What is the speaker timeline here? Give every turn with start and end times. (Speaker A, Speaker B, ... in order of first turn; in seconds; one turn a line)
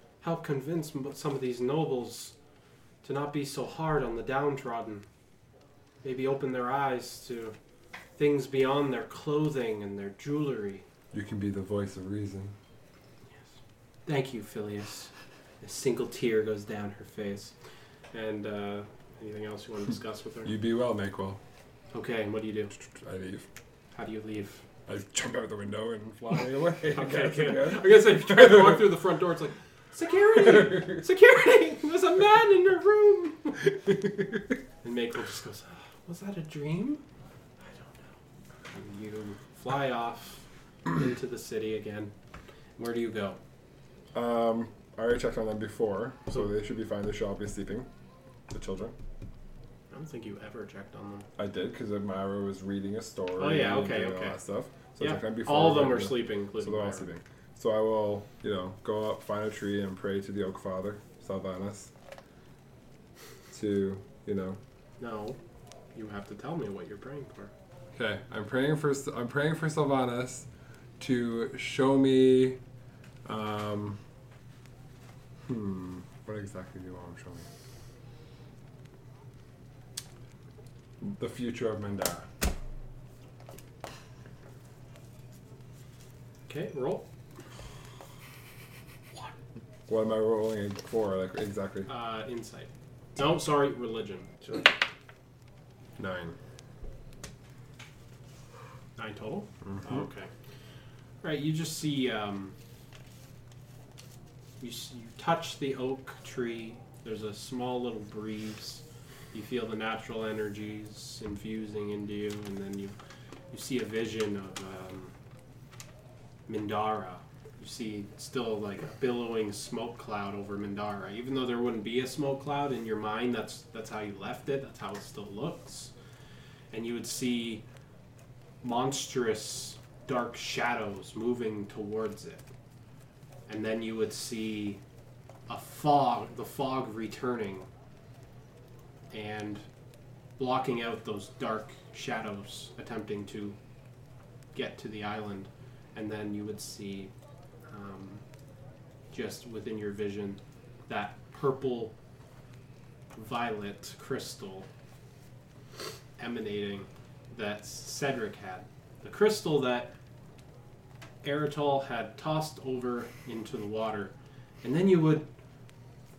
Speaker A: 0.2-2.3
Speaker A: 3.0-5.0
Speaker A: 6.0-7.5
Speaker A: 8.2-10.8
Speaker B: 11.1-12.5
Speaker A: 13.3-17.5
Speaker A: 18.1-20.5
Speaker B: 20.4-21.4
Speaker A: 21.9-22.7
Speaker B: 22.7-23.4
Speaker A: 23.9-24.6
Speaker B: 24.9-29.0
Speaker A: 26.9-33.7
Speaker B: 30.3-31.0
Speaker A: 34.8-37.0
Speaker A: 37.6-38.1
Speaker A: 38.7-42.1
Speaker A: 42.8-43.4
Speaker B: 44.1-47.9
Speaker B: 48.5-48.9
Speaker A: 49.9-51.3
Speaker B: 51.4-61.9
Speaker A: 53.4-54.4
Speaker A: 55.0-57.0
Speaker B: 63.5-64.6
Speaker A: 65.0-65.4
Speaker A: 65.9-67.5
Speaker B: 67.9-70.5
Speaker B: 71.0-72.6
Speaker B: 73.2-74.0
Speaker B: 75.4-77.5
Speaker B: 81.0-82.3
Speaker A: 86.5-87.0
Speaker B: 89.9-91.9
Speaker A: 91.9-94.6
Speaker B: 96.0-96.3
Speaker A: 99.0-100.3
Speaker B: 99.6-100.0
Speaker A: 101.2-102.5
Speaker A: 104.6-112.9
Speaker A: 113.5-115.1
Speaker A: 116.5-125.9
Speaker A: 126.7-127.6
Speaker A: 128.6-132.5
Speaker A: 133.5-134.8
Speaker A: 135.5-137.7
Speaker A: 139.1-139.6
Speaker A: 140.4-143.6
Speaker A: 144.5-147.1
Speaker A: 147.7-148.2
Speaker A: 149.1-151.9
Speaker A: 153.1-154.7
Speaker A: 156.2-159.9
Speaker A: 161.2-165.3